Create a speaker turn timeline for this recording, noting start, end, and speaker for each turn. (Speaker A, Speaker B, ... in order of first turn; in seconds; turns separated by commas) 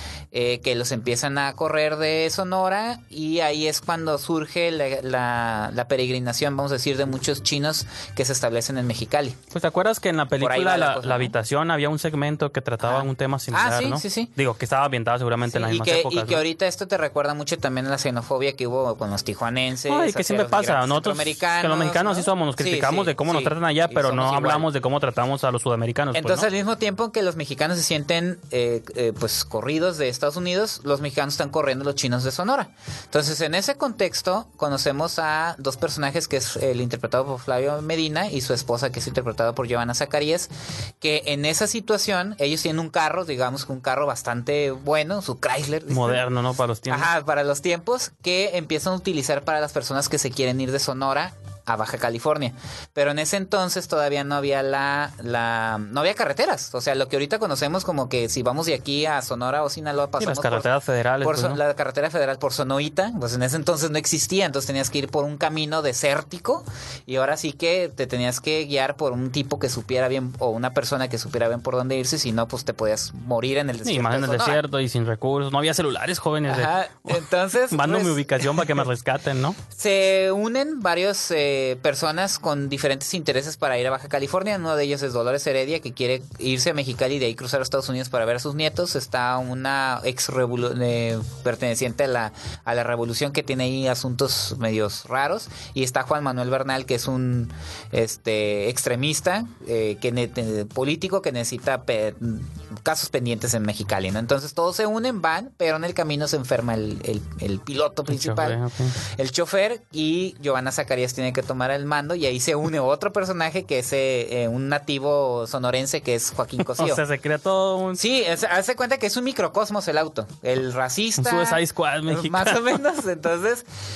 Speaker A: 0.3-9.4, Speaker B: 9.5-16.4, Speaker A: 10.4-11.3, Speaker A: 12.8-14.3, Speaker A: 15.5-24.7, Speaker B: 19.9-26.5, Speaker A: 26.1-46.2, Speaker B: 45.9-47.1, Speaker A: 46.9-60.7, Speaker B: 60.2-61.6, Speaker A: 61.2-74.6, Speaker B: 73.8-79.6, Speaker A: 76.5-78.7, Speaker A: 79.7-117.0, Speaker B: 108.1-109.0, Speaker B: 116.8-118.0, Speaker A: 118.0-123.7, Speaker B: 121.2-122.8